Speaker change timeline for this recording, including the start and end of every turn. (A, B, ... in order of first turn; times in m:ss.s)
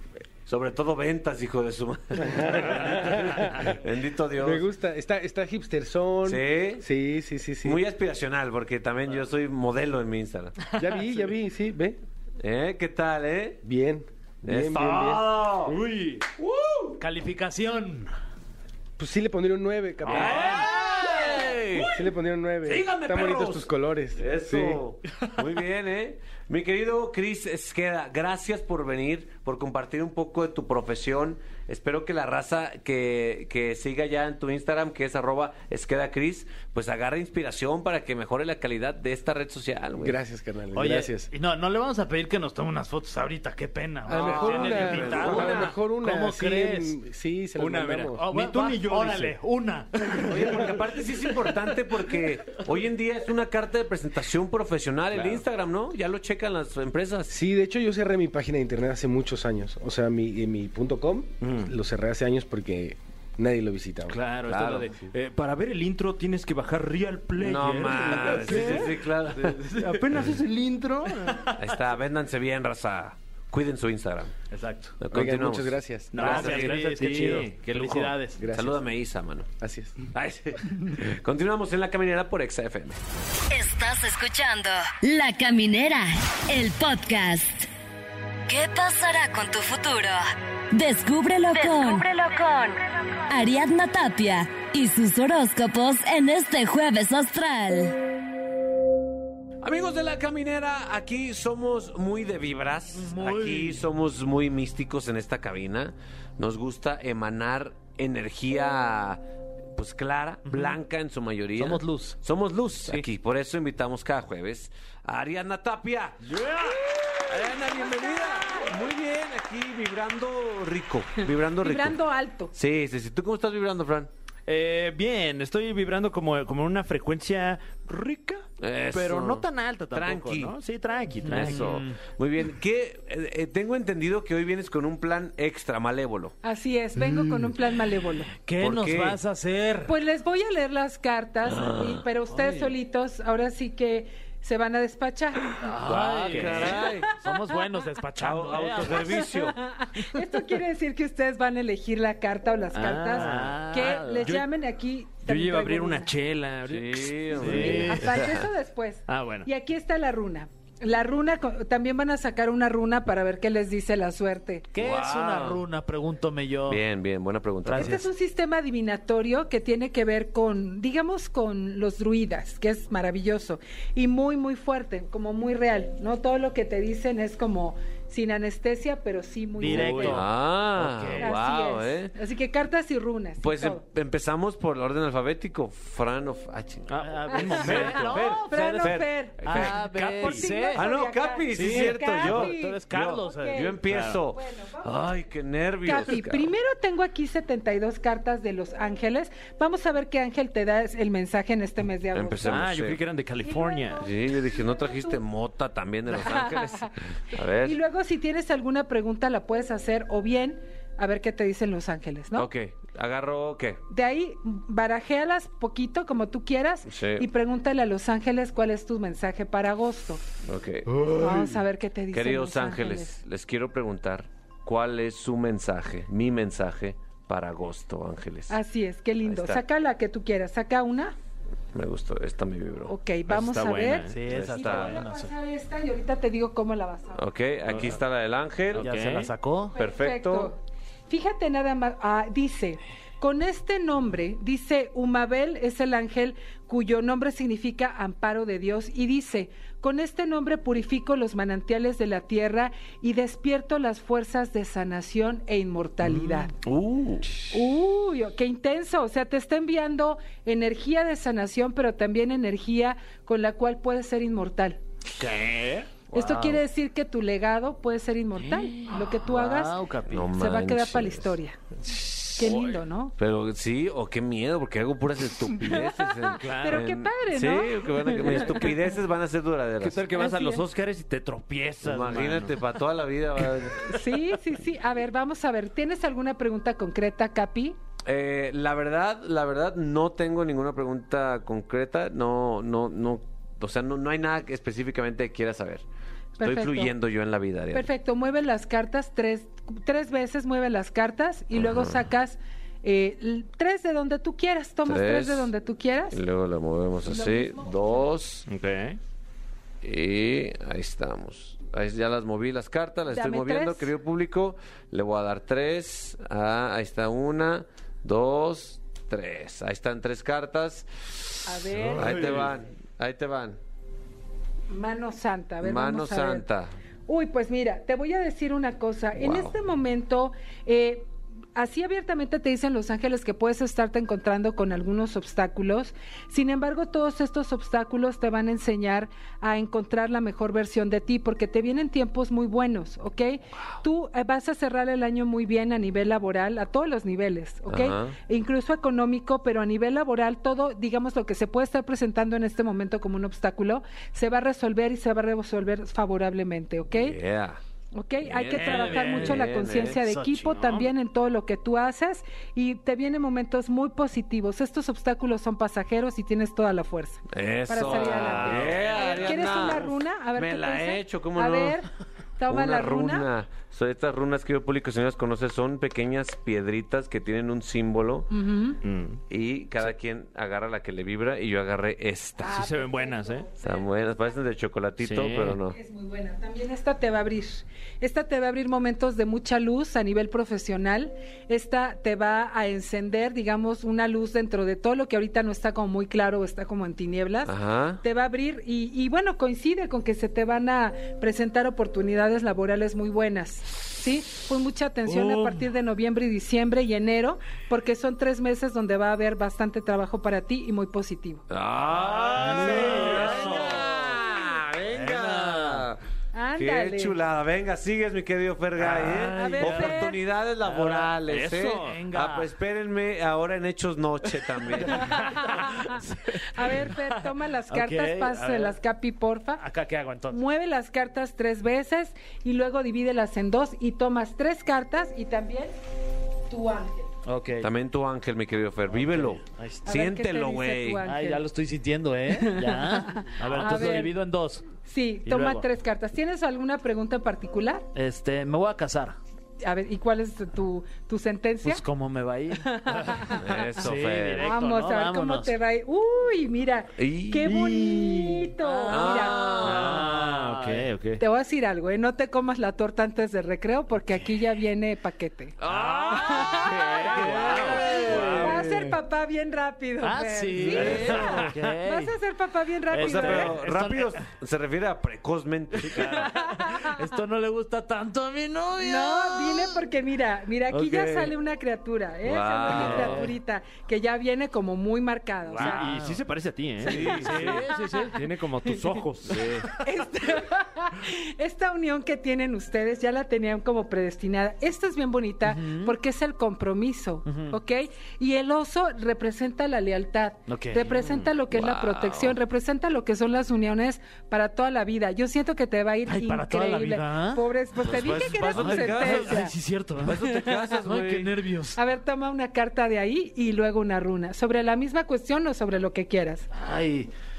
0:00.5-0:04.6 A
0:02.2-0:03.8 B
0:04.4-0:07.8 B
0:06.2-0:06.8 A
0:07.6-0:10.6 A
0:10.8-0:12.0 B
0:12.4-0:13.6 A
0:13.6-0:15.3 B
0:14.4-0:15.8 A
0:15.6-0:16.3 C
0:16.4-0:17.0 A
0:17.0-0:18.1 D
0:19.0-0:20.6 B
0:20.1-0:21.9 A
0:20.1-0:21.9 C
0:21.9-0:24.8 B
0:22.6-0:40.2 A
0:40.0-0:41.3 B
0:40.7-0:46.9 D
0:44.1-0:48.2 B
0:44.1-0:45.7 A
0:47.6-0:49.4 C
0:48.2-0:50.3 D
0:50.0-0:50.7 C
0:50.2-0:57.3 A
0:57.3-1:04.2 B
1:01.4-1:01.7 C
1:04.1-1:09.0 C
1:04.5-1:04.9 A
1:07.4-1:09.7 A
1:08.3-1:08.8 D
1:09.4-1:10.3 D
1:09.7-1:11.6 C
1:11.1-1:11.4 D
1:11.6-1:14.3 A
1:14.5-1:14.9 D
1:15.0-1:16.8 A
1:15.1-1:16.6 B
1:16.1-1:18.2 C
1:16.1-1:18.4 D
1:18.4-1:18.8 B
1:18.5-1:19.5 A
1:19.6-1:20.0 B
1:20.1-1:23.0 A
1:23.5-1:27.7 E
1:28.5-1:38.0 E
1:39.6-1:49.2 A
1:42.9-1:43.8 D
1:49.7-1:56.2 A
1:51.6-1:52.2 D
1:56.2-1:57.2 C
1:57.2-2:02.0 A
1:57.5-1:58.8 F
2:01.6-2:02.5 F
2:02.5-2:04.1 A
2:04.5-2:11.8 C
2:08.6-2:10.6 A
2:11.2-2:12.0 D
2:11.3-2:16.4 A
2:16.4-2:18.3 F
2:18.4-2:19.9 D
2:18.6-2:19.2 A
2:19.9-2:25.6 F
2:21.4-2:22.0 A
2:22.4-2:22.7 D
2:25.6-2:29.2 D
2:25.8-2:27.1 A
2:25.9-2:26.8 C
2:28.2-2:29.6 A
2:29.2-2:36.1 F
2:32.7-2:34.4 C
2:33.1-2:34.3 D
2:35.2-2:38.3 C
2:36.7-2:38.5 A
2:37.4-2:38.0 D
2:37.5-2:44.7 F
2:39.1-2:39.5 C
2:44.7-2:46.8 D
2:44.8-2:45.6 A
2:46.7-2:48.0 A
2:47.6-2:48.0 D
2:47.7-3:00.2 F
2:59.6-3:00.2 D
2:59.6-3:00.2 C
2:59.7-3:02.1 A
3:00.8-3:01.3 C
3:00.8-3:01.2 D
3:01.2-3:03.8 F
3:03.4-3:09.8 A
3:06.9-3:08.3 C
3:07.0-3:10.8 D
3:07.3-3:15.2 F
3:09.6-3:10.6 C
3:10.7-3:16.5 A
3:11.5-3:12.5 C
3:11.5-3:13.7 D
3:13.8-3:14.2 C
3:15.8-3:22.7 F
3:22.1-3:23.0 A
3:22.4-3:24.0 C
3:23.4-3:25.2 F
3:24.0-3:27.8 A
3:26.1-3:26.9 F
3:27.5-3:32.5 F
3:32.3-3:33.8 A
3:33.9-3:40.2 F
3:36.9-3:37.3 A
3:40.4-3:41.0 A
3:41.2-3:43.2 F
3:42.1-3:48.6 A
3:48.5-3:51.1 F
3:49.2-3:49.6 A
3:51.7-3:52.9 A
3:52.9-3:57.2 F
3:53.3-3:54.4 C
3:54.1-3:55.3 D
3:54.3-3:55.0 A
3:57.1-4:00.5 A
3:57.7-3:58.0 C
3:58.7-3:59.3 C
3:58.7-3:59.7 D
3:59.7-4:16.5 F
4:16.7-4:17.2 C
4:17.5-4:24.8 F
4:25.2-4:26.0 C
4:26.1-4:29.8 F
4:28.4-4:30.3 D
4:30.1-4:31.3 A
4:30.3-4:31.6 F
4:32.4-4:32.7 C
4:32.4-4:33.1 F
4:33.2-4:40.1 A
4:35.6-4:38.8 F
4:36.4-4:36.9 C
4:39.8-4:42.6 C
4:40.1-4:40.6 F
4:41.8-4:44.0 A
4:43.9-4:47.8 F
4:48.0-4:55.8 A
4:56.4-4:56.9 F
4:56.4-4:57.9 A
4:57.7-5:06.2 F
5:01.6-5:02.0 A
5:04.8-5:05.5 A
5:06.1-5:08.4 A
5:07.0-5:08.1 F
5:08.5-5:09.0 C
5:09.8-5:21.3 A
5:13.1-5:13.9 F
5:21.4-5:22.4 F
5:21.8-5:22.4 C
5:22.0-5:23.6 A
5:24.7-5:26.4 F
5:25.6-5:26.7 A
5:27.1-5:57.2 F
5:29.2-5:29.5 A
5:47.7-5:48.1 A
5:56.9-5:57.6 A
5:57.9-6:13.3 F
5:58.2-6:00.0 A
5:58.5-5:59.5 C
5:59.0-6:00.6 D
6:00.5-6:00.9 C
6:07.3-6:11.8 A
6:07.8-6:09.9 C
6:12.5-6:18.3 A
6:18.3-6:18.8 F
6:18.8-6:19.2 C
6:19.3-6:22.6 A
6:22.4-6:24.4 F
6:22.5-6:23.5 C
6:23.6-6:25.8 A
6:25.0-6:25.6 C
6:25.6-6:51.4 F
6:37.4-6:38.0 A
6:51.5-6:56.0 A
6:52.3-6:53.9 D
6:52.4-6:53.8 C
6:54.9-6:55.9 D
6:56.3-6:57.2 F
6:56.6-7:05.0 A
6:58.8-7:00.0 D
6:58.9-6:59.7 C
6:59.3-7:00.2 F
7:00.7-7:02.0 C
7:01.8-7:02.5 D
7:04.9-7:05.9 D
7:05.2-7:05.9 F
7:05.7-7:06.0 C
7:06.6-7:09.6 F
7:07.7-7:08.8 D
7:09.6-7:10.4 D
7:10.3-7:15.7 F
7:16.5-7:17.1 F
7:17.2-7:17.7 D
7:17.6-7:21.0 A
7:18.9-7:19.9 D
7:19.8-7:21.4 F
7:21.0-7:24.6 D
7:22.3-7:24.2 F
7:24.8-7:27.8 F
7:25.2-7:25.6 D
7:27.9-7:29.2 D
7:29.6-7:31.8 F
7:31.6-7:35.5 D
7:32.6-7:33.4 F
7:33.4-7:34.5 A
7:34.4-7:39.7 F
7:37.0-7:37.5 A
7:37.7-7:40.9 D
7:38.9-7:40.1 A
7:39.6-7:41.2 C
7:41.2-7:45.6 F
7:45.6-7:46.6 A
7:45.7-7:48.6 D
7:45.9-7:48.9 C
7:46.2-7:53.5 F
7:47.2-7:48.7 A
7:50.0-7:52.1 D
7:50.6-7:51.4 A
7:50.6-7:51.5 C
7:52.9-7:54.2 D
7:53.0-7:56.3 A
7:55.8-7:59.8 D
7:56.4-7:57.0 F
7:58.8-8:05.9 F
8:00.7-8:01.3 A
8:02.2-8:03.2 A
8:02.7-8:03.2 C
8:02.7-8:03.3 D
8:05.4-8:05.8 A
8:05.6-8:09.6 C
8:05.6-8:06.2 D
8:06.8-8:08.2 D
8:06.8-8:07.6 A
8:09.8-8:29.5 F
8:15.4-8:15.9 D
8:17.3-8:17.5 D
8:20.5-8:20.9 D
8:21.5-8:22.4 A
8:26.1-8:27.4 D
8:27.8-8:29.4 A
8:28.5-8:31.8 D
8:30.0-8:31.3 A
8:31.8-8:36.5 F
8:36.5-8:37.1 D